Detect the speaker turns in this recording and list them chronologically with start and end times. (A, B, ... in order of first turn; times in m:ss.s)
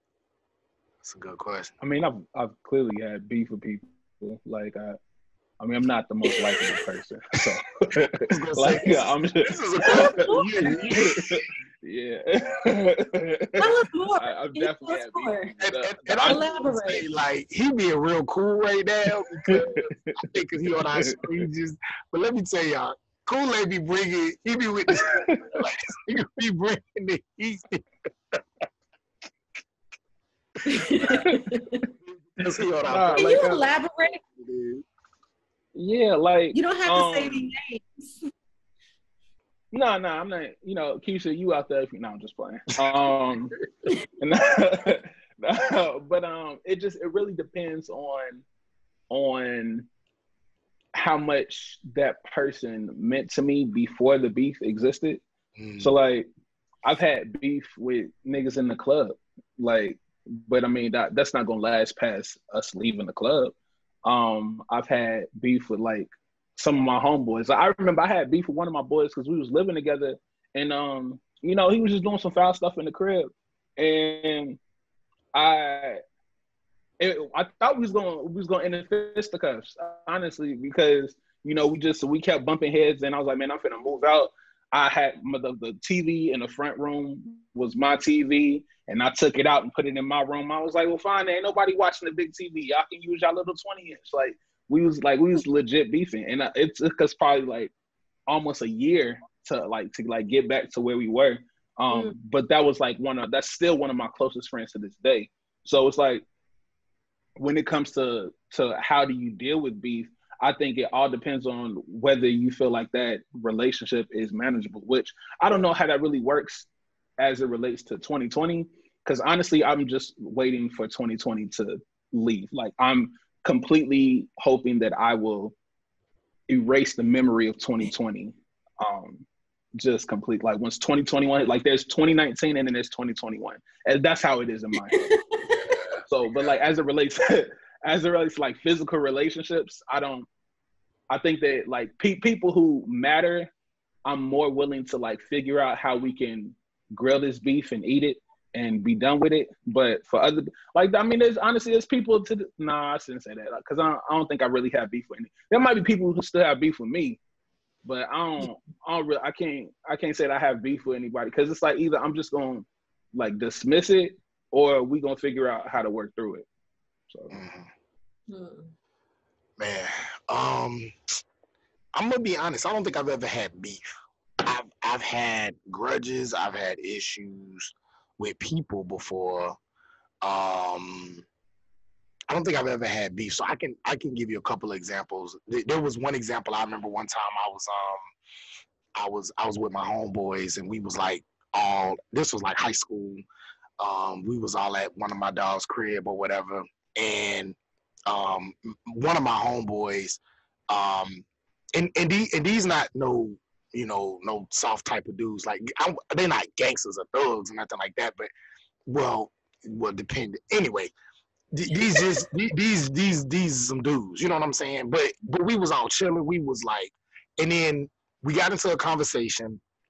0:01.0-0:01.7 A
0:01.8-0:05.0 B
0:05.6-0:16.4 B
0:06.3-0:06.9 C
0:08.2-0:11.4 A
0:09.8-0:11.0 C
0:13.6-0:15.5 C
0:15.6-0:28.4 A
0:16.2-0:17.1 C
0:19.4-0:20.3 B
0:20.9-0:21.3 B
0:25.1-0:25.6 B
0:30.7-0:31.8 C
0:31.2-0:31.4 B
0:32.0-0:33.6 A
0:32.9-0:33.6 B
0:33.2-0:34.2 C
0:34.4-0:34.8 A
0:35.8-0:37.5 B
0:36.5-0:38.3 C
0:39.7-0:48.4 B
0:49.1-0:49.9 B
0:51.0-0:55.2 B
0:55.6-0:55.9 A
0:55.8-0:56.3 B
0:56.8-1:03.5 B
1:04.0-1:14.6 B
1:15.3-1:16.0 B
1:17.0-1:37.7 B
1:38.3-1:46.2 B
1:41.9-1:42.2 C
1:47.4-1:56.7 B
1:57.2-2:05.6 B
2:06.5-2:09.2 B
2:09.8-2:15.2 B
2:14.9-2:15.6 C
2:16.1-2:20.3 B
2:21.1-2:23.5 B
2:24.0-2:37.2 B
2:37.8-2:46.5 B
2:47.1-2:47.4 B
2:47.3-2:47.7 A
2:48.3-2:48.7 C
2:49.6-2:51.2 A
2:52.0-2:53.9 A
2:54.4-2:59.6 A
3:00.2-3:01.2 A
3:02.3-3:08.0 A
3:09.0-3:13.2 A
3:13.8-3:28.3 A
3:28.9-3:30.9 A
3:31.5-3:39.6 A